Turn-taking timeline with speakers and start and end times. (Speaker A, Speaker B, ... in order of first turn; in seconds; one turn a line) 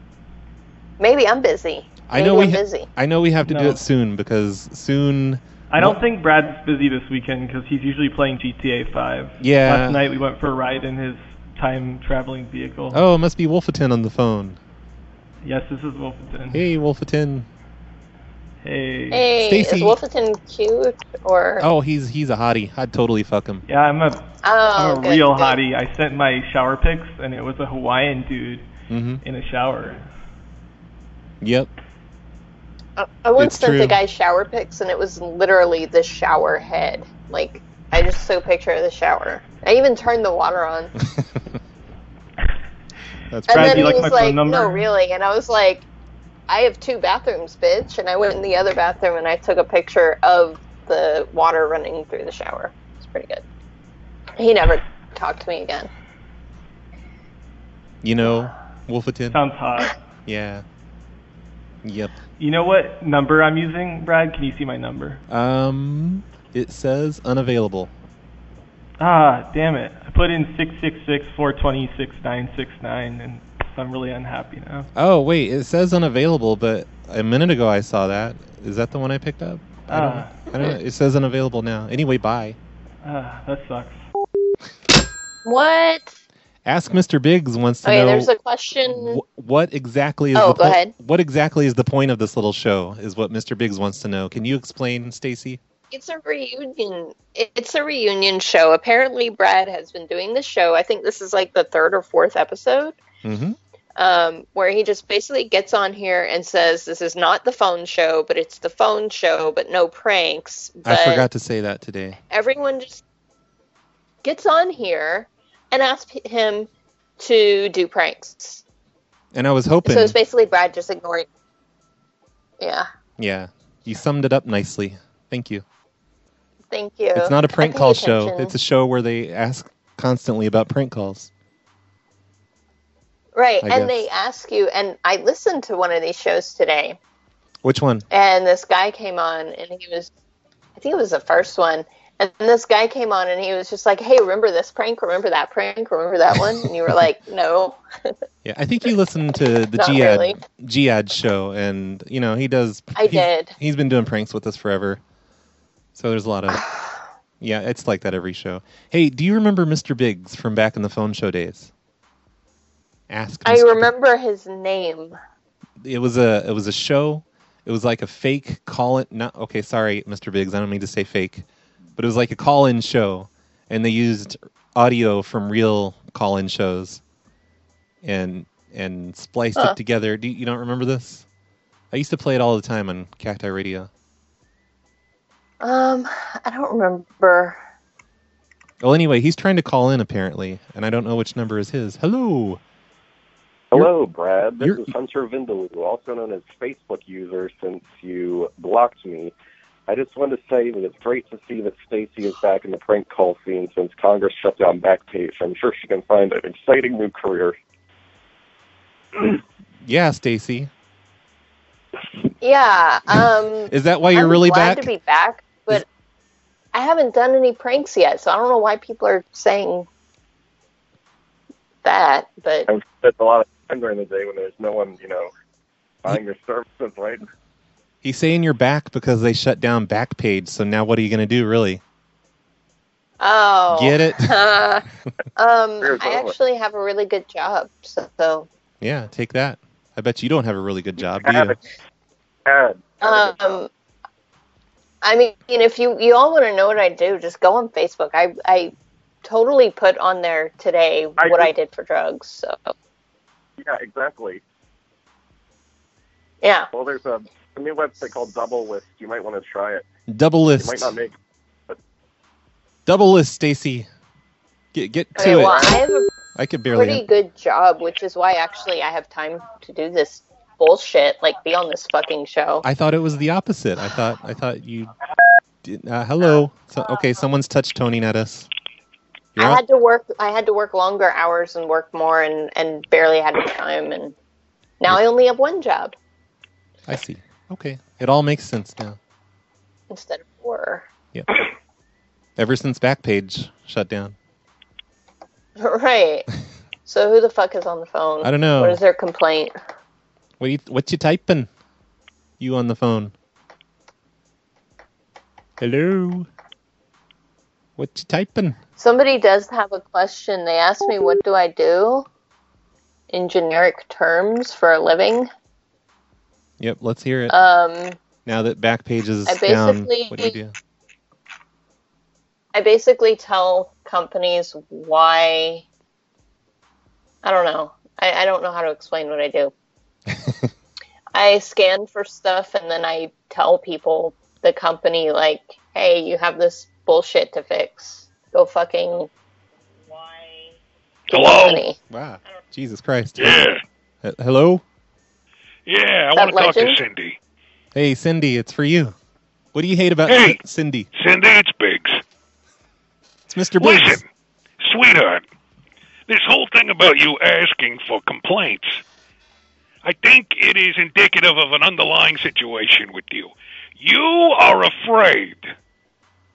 Speaker A: 1.0-2.9
Speaker B: 2.1-6.0
Speaker C: 3.4-3.8
Speaker C: 5.7-13.0
Speaker B: 9.4-10.0
Speaker B: 12.9-14.6
Speaker C: 15.4-16.6
Speaker B: 16.5-17.5
Speaker C: 18.6-19.3
Speaker A: 19.1-21.6
Speaker B: 19.4-20.0
Speaker B: 21.6-23.6
Speaker C: 23.6-28.7
Speaker A: 24.4-25.6
Speaker B: 28.9-29.2
Speaker C: 29.2-30.0
Speaker B: 31.4-31.7
Speaker A: 33.0-40.9
Speaker B: 33.4-34.0
Speaker B: 41.1-41.4
Speaker B: 43.3-44.1
Speaker A: 43.5-45.8
Speaker C: 43.5-44.9
Speaker A: 46.5-53.4
Speaker A: 54.4-55.9
Speaker B: 58.0-59.4
Speaker C: 59.3-60.0
Speaker B: 60.2-60.6
Speaker B: 61.8-62.1
Speaker C: 62.4-65.2
Speaker B: 65.3-67.9
Speaker C: 69.0-74.9
Speaker B: 74.9-82.6
Speaker C: 79.9-80.4
Speaker C: 83.0-84.0
Speaker A: 85.4-86.2
Speaker B: 86.6-88.3
Speaker A: 87.8-89.2
Speaker B: 88.8-95.6
Speaker A: 90.3-90.9
Speaker A: 95.9-103.0
Speaker B: 103.2-103.6
Speaker A: 104.0-111.3
Speaker B: 110.8-112.2
Speaker A: 112.3-113.0
Speaker A: 114.2-118.6
Speaker B: 119.3-120.2
Speaker A: 119.8-121.3
Speaker A: 122.6-122.9
Speaker B: 123.2-125.6
Speaker A: 126.7-128.5
Speaker B: 127.1-131.3
Speaker A: 133.3-137.0
Speaker B: 133.6-134.0
Speaker B: 137.6-138.1
Speaker A: 138.1-140.1
Speaker A: 140.8-147.8
Speaker B: 148.4-155.0
Speaker A: 149.8-150.4
Speaker A: 152.9-153.5
Speaker B: 155.9-156.6
Speaker A: 156.5-157.0
Speaker B: 157.4-161.7
Speaker B: 163.1-163.9
Speaker A: 163.4-165.2
Speaker B: 165.8-171.4
Speaker B: 172.0-177.0
Speaker B: 178.0-181.2
Speaker B: 181.9-183.9
Speaker A: 185.6-187.6
Speaker B: 188.8-192.6
Speaker D: 193.7-199.3
Speaker B: 194.6-194.9
Speaker D: 199.9-207.6
Speaker B: 209.8-210.7
Speaker A: 212.4-215.8
Speaker B: 213.7-214.9
Speaker A: 216.7-219.9
Speaker A: 221.8-222.7
Speaker D: 222.7-225.3
Speaker D: 226.0-227.2
Speaker B: 228.0-231.8
Speaker A: 233.2-234.8
Speaker B: 233.7-234.3
Speaker A: 235.3-238.5
Speaker D: 235.8-236.3
Speaker B: 238.8-241.6
Speaker D: 241.2-241.5
Speaker D: 242.4-243.6
Speaker A: 243.0-243.7
Speaker A: 245.0-248.7
Speaker A: 249.2-252.7
Speaker D: 251.2-251.5
Speaker D: 253.6-254.4
Speaker A: 256.4-256.7
Speaker D: 256.7-259.8
Speaker B: 260.1-260.9
Speaker D: 260.6-261.1
Speaker B: 262.9-263.9
Speaker B: 264.7-265.8
Speaker A: 265.1-266.1
Speaker B: 266.3-267.0
Speaker A: 266.7-272.6
Speaker B: 272.6-274.9
Speaker B: 275.6-278.5
Speaker B: 279.3-279.6
Speaker A: 279.4-284.1
Speaker A: 284.8-285.9
Speaker B: 286.9-289.0
Speaker A: 289.9-290.8
Speaker B: 292.4-294.1
Speaker A: 295.6-296.3
Speaker A: 296.9-299.5
Speaker B: 298.2-298.8
Speaker B: 300.4-301.5
Speaker B: 302.4-303.1
Speaker B: 305.6-306.3
Speaker B: 307.8-308.6
Speaker A: 308.8-312.1
Speaker A: 313.1-315.3
Speaker B: 316.6-317.4
Speaker A: 317.3-318.0
Speaker B: 318.2-320.5
Speaker A: 319.2-320.4
Speaker A: 322.5-325.6
Speaker A: 327.2-329.5
Speaker B: 330.1-330.5
Speaker A: 331.1-339.1
Speaker A: 339.9-340.5
Speaker A: 341.1-341.8
Speaker E: 341.1-341.6
Speaker B: 341.9-343.4
Speaker E: 343.2-343.6
Speaker B: 344.0-344.6
Speaker E: 345.7-347.2
Speaker A: 346.1-346.8
Speaker B: 347.7-348.9
Speaker B: 349.5-350.9
Speaker E: 350.1-350.4
Speaker E: 350.9-352.0
Speaker B: 353.3-354.0
Speaker E: 353.6-354.1
Speaker E: 354.6-355.2
Speaker E: 356.1-358.8
Speaker E: 359.8-365.5